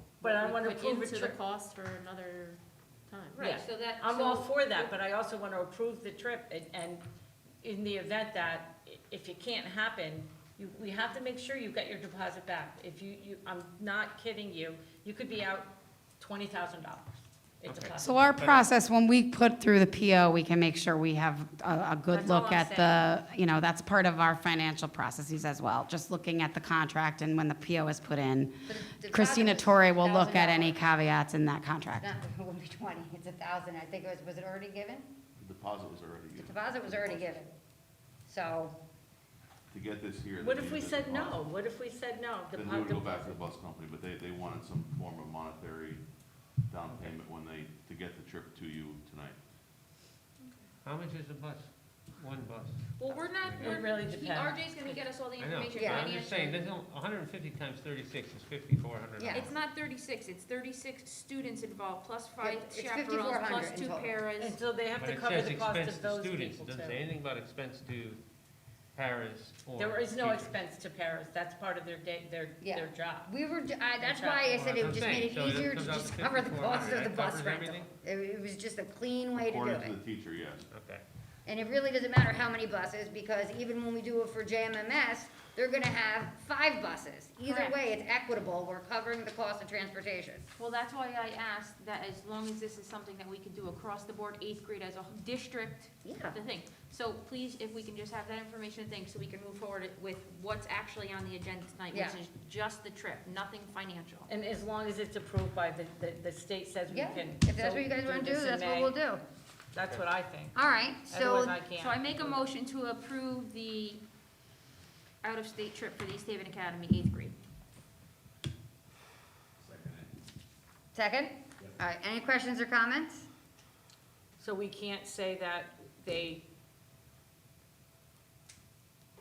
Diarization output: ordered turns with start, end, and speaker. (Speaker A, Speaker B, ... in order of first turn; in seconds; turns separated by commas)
Speaker A: 0.2-1.4, Speaker B: 0.2-3.4, Speaker C: 0.7-1.4, Speaker C: 3.3-5.0, Speaker A: 3.4-7.0, Speaker A: 7.6-18.3, Speaker D: 17.7-18.7, Speaker E: 18.0-32.1, Speaker A: 22.1-23.1, Speaker F: 28.7-30.8, Speaker F: 32.0-35.1, Speaker G: 35.4-37.4, Speaker F: 36.4-37.5, Speaker F: 38.3-38.8, Speaker G: 39.7-41.5, Speaker A: 40.4-43.4, Speaker G: 42.5-46.0, Speaker G: 46.7-49.4, Speaker C: 50.4-50.7, Speaker D: 50.8-53.8, Speaker C: 53.0-56.6, Speaker A: 53.1-55.1, Speaker D: 55.4-59.5, Speaker F: 55.7-56.1, Speaker F: 59.2-59.5, Speaker C: 59.3-64.6, Speaker F: 62.4-64.2, Speaker A: 64.4-67.0, Speaker D: 64.9-68.2, Speaker D: 69.0-70.5, Speaker A: 69.8-73.3, Speaker F: 72.6-80.0, Speaker A: 74.0-74.7, Speaker D: 74.5-77.9, Speaker G: 79.4-80.7, Speaker D: 80.7-81.0, Speaker F: 81.5-90.4, Speaker C: 87.4-87.8, Speaker C: 90.6-104.3, Speaker F: 96.0-96.4, Speaker F: 101.9-102.2, Speaker A: 104.3-109.0, Speaker F: 106.9-109.2, Speaker A: 109.7-110.6, Speaker F: 110.5-111.6, Speaker A: 111.1-112.4, Speaker C: 111.7-114.0, Speaker C: 115.2-117.4, Speaker F: 120.9-123.3, Speaker A: 124.4-126.5